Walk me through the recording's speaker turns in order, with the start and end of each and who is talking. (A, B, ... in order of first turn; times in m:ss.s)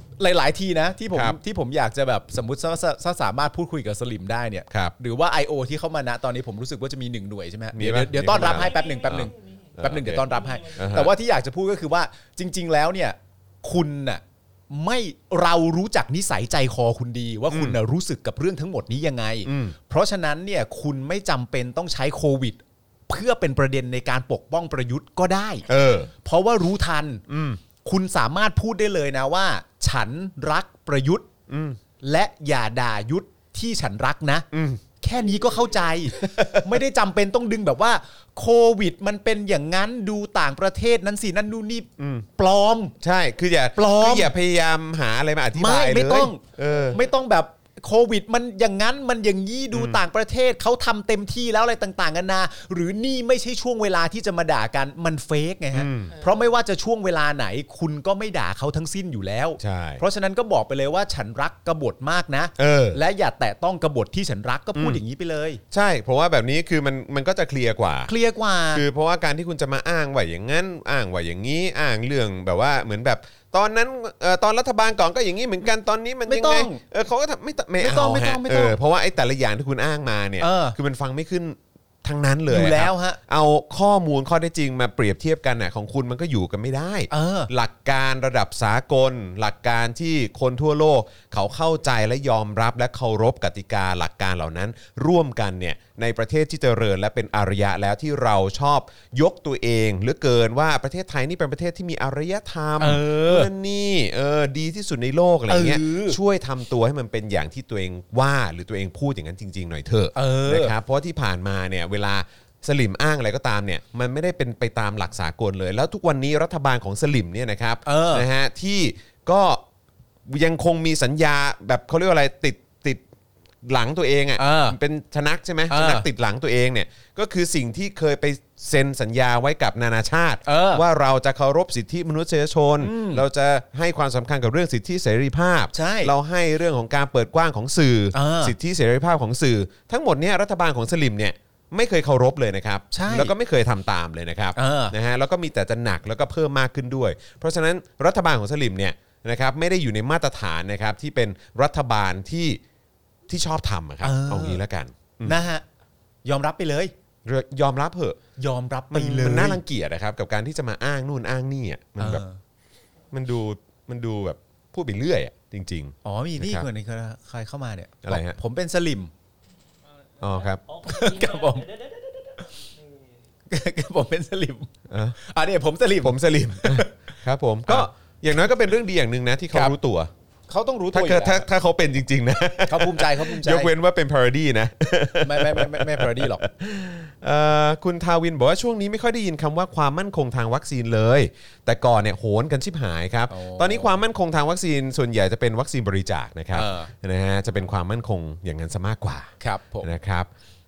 0:00.2-0:25.7 A
0:01.1-0:01.4 B
0:07.7-0:11.1 B
0:08.3-0:10.8 C
0:17.5-0:17.8 B
0:19.4-0:19.8 B
0:25.7-0:26.1 B
0:26.2-0:27.2 A
0:27.3-0:27.6 B
0:27.8-0:31.3 A
0:31.5-0:31.8 B
0:32.0-0:34.5 A
0:34.5-0:34.8 B
0:35.0-0:43.0 A
0:36.2-0:36.8 B
0:42.0-0:42.3 B
0:43.0-0:47.0 B
0:43.8-0:44.3 A
0:45.6-1:05.6 A
0:49.7-0:50.0 B
0:55.7-0:56.2 B
0:56.2-0:56.4 C
0:59.6-1:00.0 B
1:02.6-1:03.0 B
1:04.8-1:05.0 B
1:05.7-1:08.1 B
1:08.1-1:08.8 A
1:08.7-1:59.6 B
1:16.3-1:16.8 A
1:17.8-1:18.8 A
1:20.4-1:20.8 A
1:22.5-1:23.2 A
1:27.1-1:27.5 A
1:42.8-1:43.5 A
1:45.5-1:46.2 A
1:50.2-1:50.7 A
1:57.8-1:58.3 A
2:00.3-2:03.0 B
2:03.6-2:32.6 B
2:04.4-2:04.8 A
2:05.7-2:06.1 A
2:10.5-2:10.8 A
2:12.8-2:13.2 A
2:15.7-2:16.1 A
2:18.1-2:18.6 A
2:22.9-2:23.3 A
2:24.6-2:24.9 A
2:33.3-2:35.4 B
2:34.0-2:34.6 A
2:35.2-2:35.6 A
2:36.2-2:36.9 A
2:37.2-2:38.2 B
2:38.4-2:39.6 A
2:38.9-2:42.2 B
2:42.0-2:42.4 A
2:43.1-2:46.7 B
2:46.0-2:49.1 A
2:48.0-2:48.4 B
2:50.2-2:50.6 B
2:50.2-2:53.0 C
2:50.9-2:51.6 A
2:53.5-2:57.1 A
2:54.9-2:55.2 B
2:56.0-3:00.1 B
3:00.5-3:01.4 A
3:00.9-3:19.3 B
3:02.7-3:03.7 A
3:05.2-3:06.5 A
3:13.3-3:14.0 A
3:16.5-3:16.9 A
3:19.4-3:19.9 A
3:19.8-3:20.3 B